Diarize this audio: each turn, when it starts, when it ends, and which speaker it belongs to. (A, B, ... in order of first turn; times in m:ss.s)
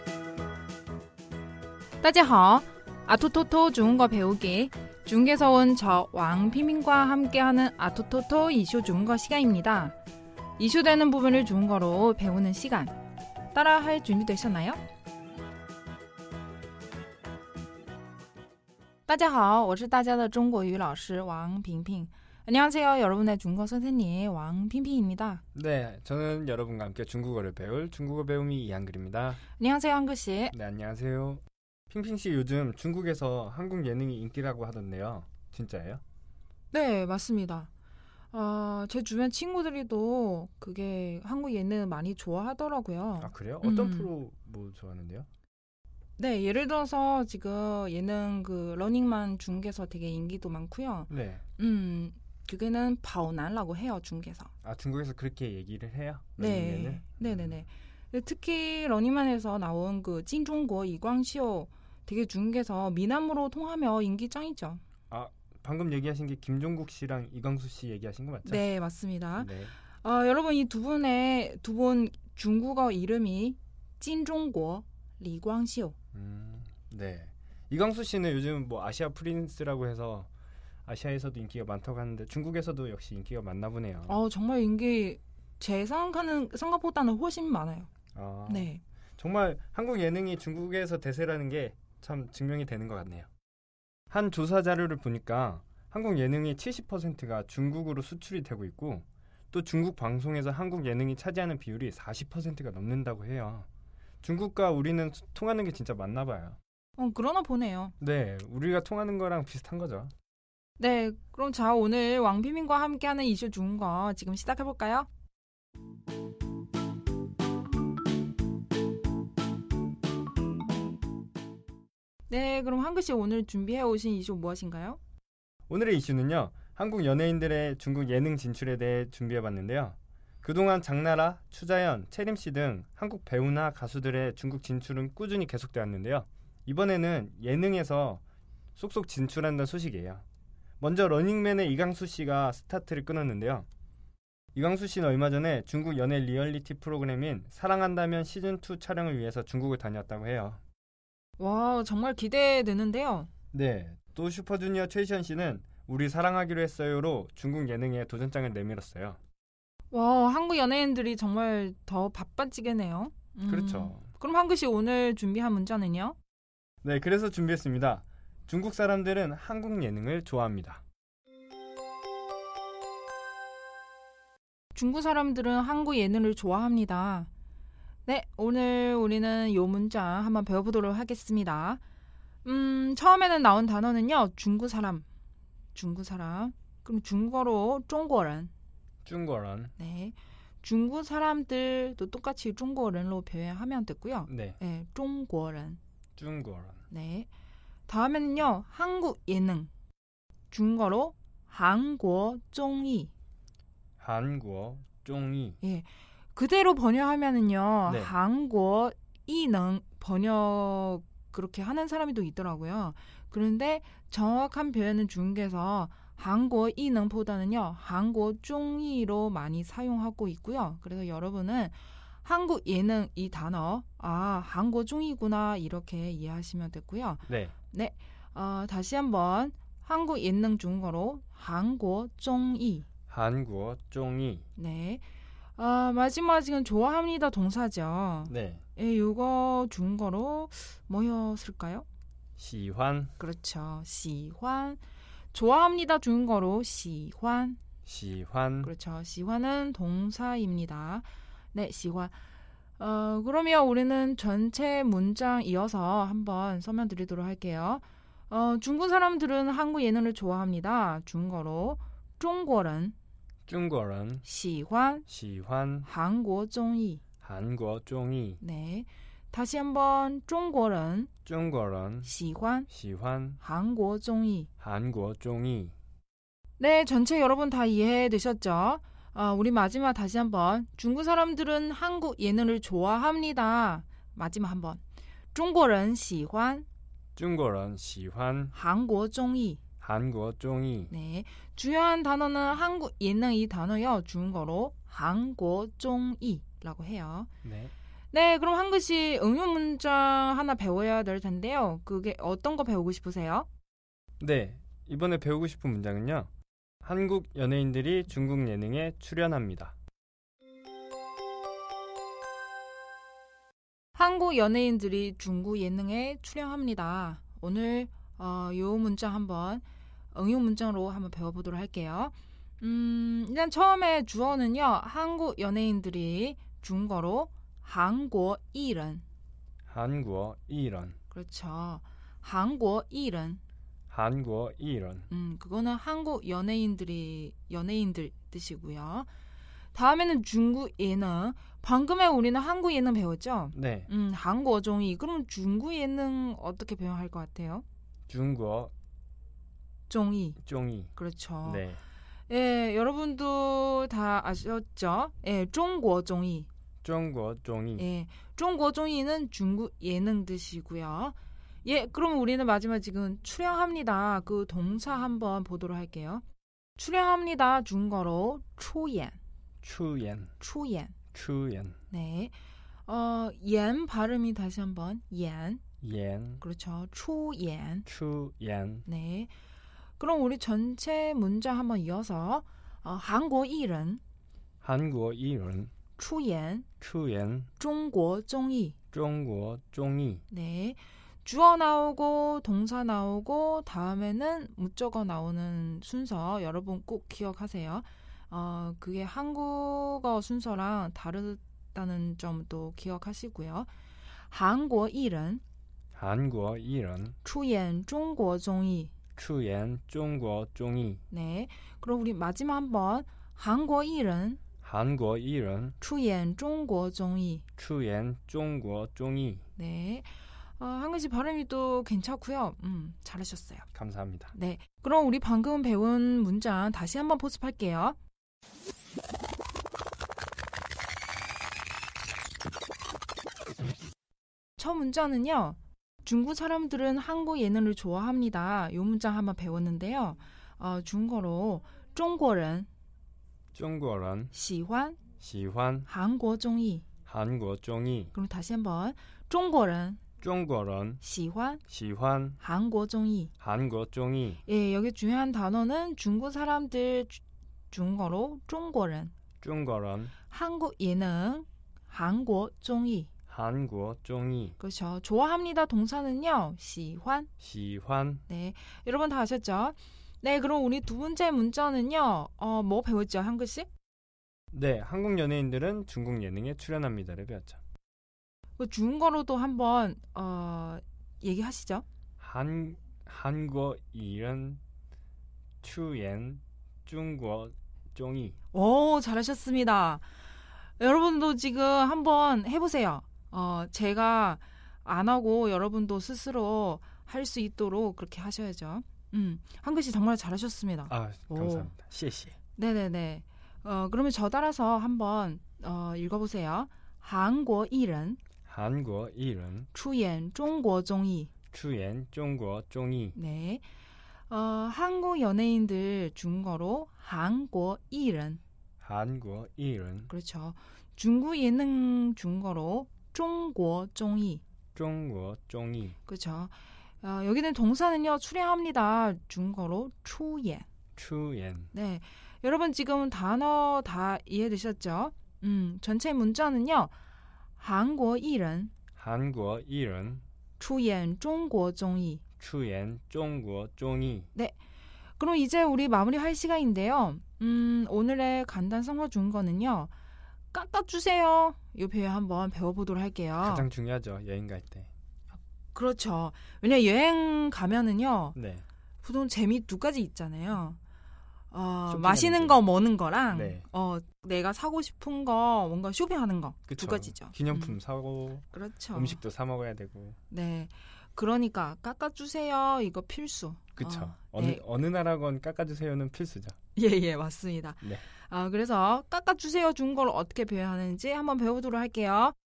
0:02.0-0:10.0 A
0:10.6-0:12.9 A
0:13.5-0:14.8 A
0:19.0-0:25.4 A
0:25.5-0:29.4 B
0:29.6-0:30.5 A
0:30.5-0:36.0 B
0:36.7-0:37.7 A
0:38.3-0:44.1 A
0:43.2-0:45.3 B
0:46.2-0:54.5 A
0:51.1-0:51.4 B
0:54.6-0:57.6 B
0:56.4-1:04.8 A
1:05.1-1:08.6 B
1:08.4-1:15.9 A
1:09.4-1:09.7 B
1:16.1-1:20.3 B
1:20.8-1:24.2 B
1:24.1-1:27.9 A
1:28.1-1:33.3 B
1:28.5-1:28.8 A
1:34.1-1:43.7 B
1:44.2-1:46.6 B
1:47.0-1:47.9 A
1:48.0-1:50.1 B
1:50.8-1:55.1 A
2:02.3-2:05.0 A
2:05.7-2:18.2 B
2:18.8-2:20.2 B
2:20.8-2:23.7 B
2:24.5-2:30.6 B
2:31.4-2:33.3 A
2:33.5-2:39.2 B
2:39.9-2:46.2 A
2:43.5-2:44.0 B
2:46.8-2:50.8 B
2:54.7-2:57.3 A
2:58.0-3:01.8 A
3:02.4-3:05.0 A
3:05.7-3:08.5 A
3:09.0-3:09.7 B
3:09.8-3:15.8 A
3:14.3-3:14.6 B
3:16.2-3:16.8 B
3:16.9-3:17.3 A
3:17.9-3:19.7 A
3:20.5-3:23.1 A
3:24.0-3:25.6 B
3:25.6-3:52.8 A
3:27.8-3:28.1 B
3:47.3-3:47.5 B
3:53.1-3:54.4 B
3:54.6-3:55.0 A
3:55.6-4:01.8 A
3:58.3-3:58.6 B
4:02.4-4:03.2 B
4:03.2-4:04.8 A
4:05.3-4:07.6 A
4:07.8-4:08.7 B
4:08.6-4:12.2 A
4:12.8-4:22.9 A
4:23.5-4:24.2 B
4:24.2-4:25.0 A
4:25.1-4:25.9 B
4:25.8-4:27.0 A
4:27.2-4:28.4 B
4:28.4-4:31.1 A
4:31.2-4:32.1 B
4:32.0-4:32.7 A
4:32.7-4:33.4 B
4:33.4-4:34.5 A
4:34.6-4:35.7 B
4:36.6-4:44.8 A
4:45.3-4:46.6 A
4:47.2-4:48.5 B
4:48.5-4:49.6 A
4:49.8-4:50.9 B
4:50.9-4:57.3 A
4:57.4-4:57.7 B
4:58.1-5:03.5 A
5:04.2-5:06.3 B
5:06.8-5:09.7 B
5:13.9-5:29.0 A
5:29.7-5:31.0 B
5:31.1-5:33.4 A
5:33.9-5:35.1 B
5:35.1-5:39.1 A
5:39.7-5:47.6 A
5:43.5-5:43.9 B
5:48.1-5:48.7 B
5:49.9-5:50.4 A
5:50.4-5:50.9 B
5:50.9-5:51.6 A
5:51.4-5:51.8 B
5:52.3-5:56.5 A
5:56.8-5:57.9 B
5:57.8-6:06.2 A
6:06.8-6:09.2 A
6:09.6-6:10.3 B
6:10.4-6:10.9 A
6:11.1-6:11.8 B
6:11.9-6:12.3 A
6:12.8-6:15.6 A
6:15.8-6:16.4 B
6:16.4-6:17.8 A
6:17.8-6:18.8 B
6:18.8-6:19.3 A
6:20.0-6:24.0 A
6:24.6-6:25.7 B
6:26.0-6:26.7 A
6:26.8-6:27.5 B
6:27.6-6:28.8 A
6:28.9-6:30.2 B
6:30.3-6:43.7 A
6:44.3-6:45.4 A
6:45.9-6:47.2 B
6:47.2-6:48.9 A
6:49.2-6:51.0 B
6:51.1-6:54.4 A
6:54.6-6:55.8 B
6:55.8-6:57.4 A
6:57.6-6:59.4 B
6:59.6-7:03.6 A
7:03.7-7:04.3 B
7:04.3-7:08.0 A
7:14.6-7:22.7 A
7:23.5-7:24.3 B
7:24.3-7:25.0 A
7:25.2-7:25.9 B
7:25.9-7:26.9 A
7:27.0-7:28.1 B
7:28.1-7:30.0 A
7:30.2-7:31.0 B
7:31.0-7:31.6 A
7:31.7-7:32.4 B
7:32.4-7:33.3 A
7:33.4-7:34.4 B
7:34.4-7:39.1 A
7:39.4-7:40.1 B
7:40.3-7:43.1 A
7:43.3-7:44.6 B
7:44.6-7:47.3 A
7:47.4-7:48.2 B
7:48.3-7:53.7 A
7:54.5-7:57.6 B
7:58.6-8:01.8 A
8:02.2-8:04.6 B
8:05.6-8:08.4 B
8:08.5-8:10.0 A
8:10.8-8:21.7 A
8:20.9-8:22.3 B
8:22.6-8:28.2 A
8:28.4-8:29.7 B
8:29.7-8:31.3 A
8:31.5-8:33.2 B
8:33.1-8:33.6 A
8:34.3-8:38.4 A
8:38.8-8:40.1 B
8:40.1-8:44.4 A
8:44.7-8:46.0 B
8:46.0-8:50.6 A
8:51.0-8:51.7 B
8:51.7-8:56.9 A
8:57.6-8:58.7 A
8:59.0-9:00.2 B
9:00.6-9:02.2 A
9:02.4-9:04.3 B
9:05.2-9:09.9 A
9:10.5-9:13.7 A
9:13.4-9:14.9 B
9:15.7-9:18.4 A
9:18.3-9:18.6 B
9:19.0-9:20.8 A
9:21.5-9:27.8 A
9:21.9-9:22.6 B
9:23.3-9:23.6 B
9:26.7-9:30.2 B
9:28.5-9:29.2 A
9:30.3-9:34.6 A
9:33.8-9:36.6 B
9:36.8-9:42.3 A